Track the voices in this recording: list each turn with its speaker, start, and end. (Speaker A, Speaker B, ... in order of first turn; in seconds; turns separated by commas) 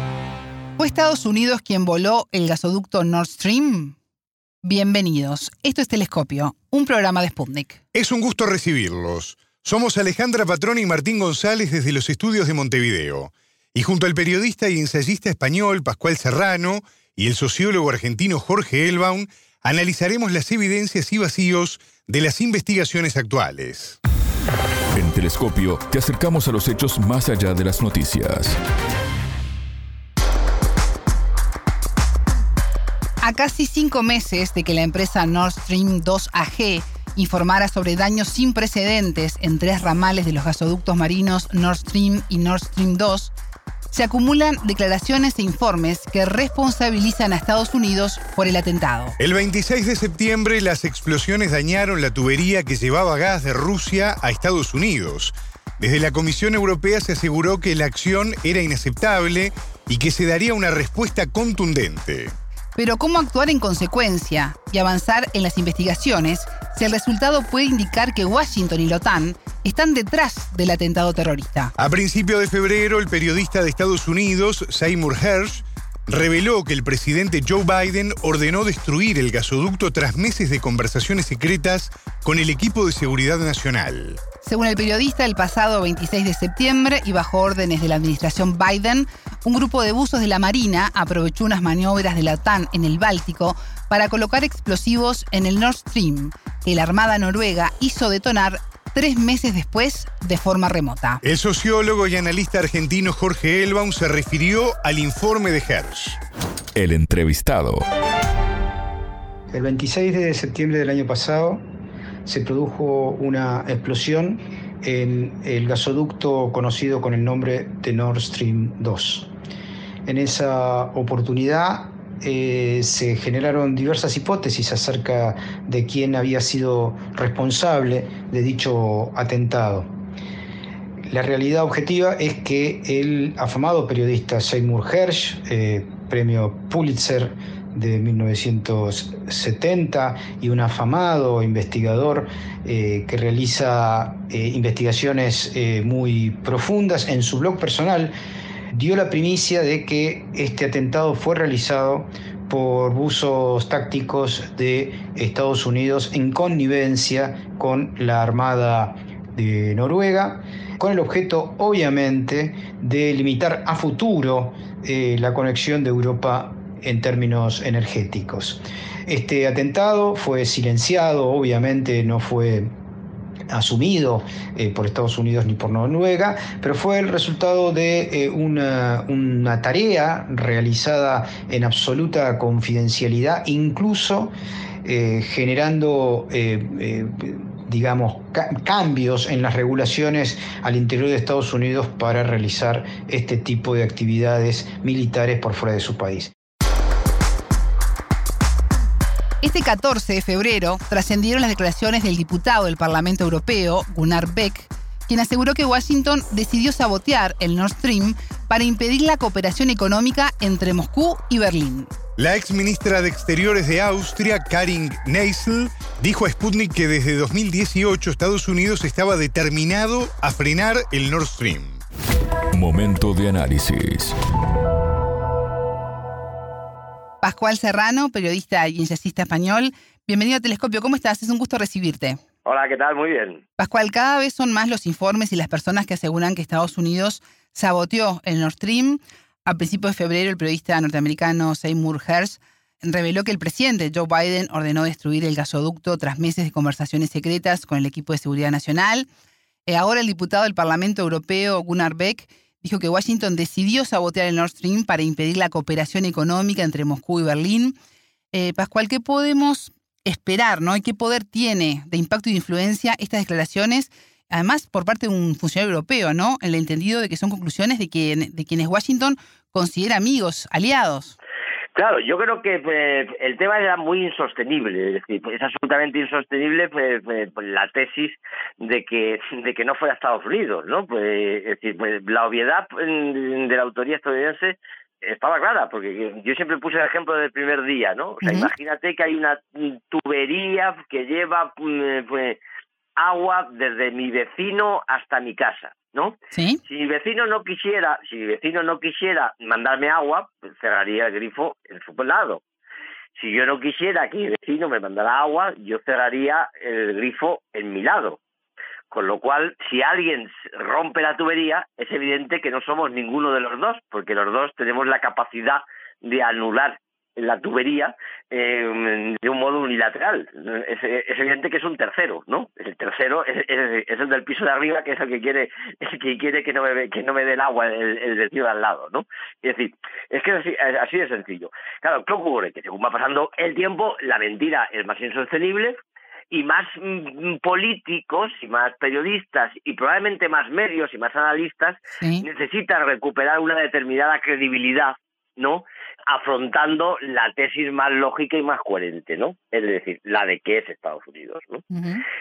Speaker A: 0.8-4.0, Speaker A: 4.6-7.8, Speaker B: 7.9-24.0, Speaker C: 24.9-28.6, Speaker A: 33.2-43.3, Speaker A: 43.9-49.1, Speaker B: 49.2-62.3, Speaker A: 62.7-71.7, Speaker B: 71.8-84.2, Speaker A: 84.4-101.2, Speaker B: 101.2-106.2, Speaker C: 106.8-107.8, Speaker D: 109.5-111.6, Speaker D: 112.2-119.3, Speaker D: 120.0-129.9, Speaker D: 131.1-148.1, Speaker D: 148.7-172.7, Speaker D: 173.5-184.3, Speaker D: 184.8-196.3, Speaker A: 199.4-211.9, Speaker B: 212.2-221.8, Speaker C: 222.5-224.2, Speaker A: 227.2-232.2, Speaker E: 232.4-233.4, Speaker A: 233.6-249.1, Speaker A: 249.7-257.7, Speaker A: 258.3-271.1, Speaker E: 271.7-292.4, Speaker A: 288.2-288.5, Speaker E: 293.0-302.4, Speaker A: 296.3-296.6, Speaker E: 303.1-308.2, Speaker E: 308.9-335.8, Speaker E: 336.3-351.6, Speaker A: 342.0-342.2, Speaker A: 351.7-352.0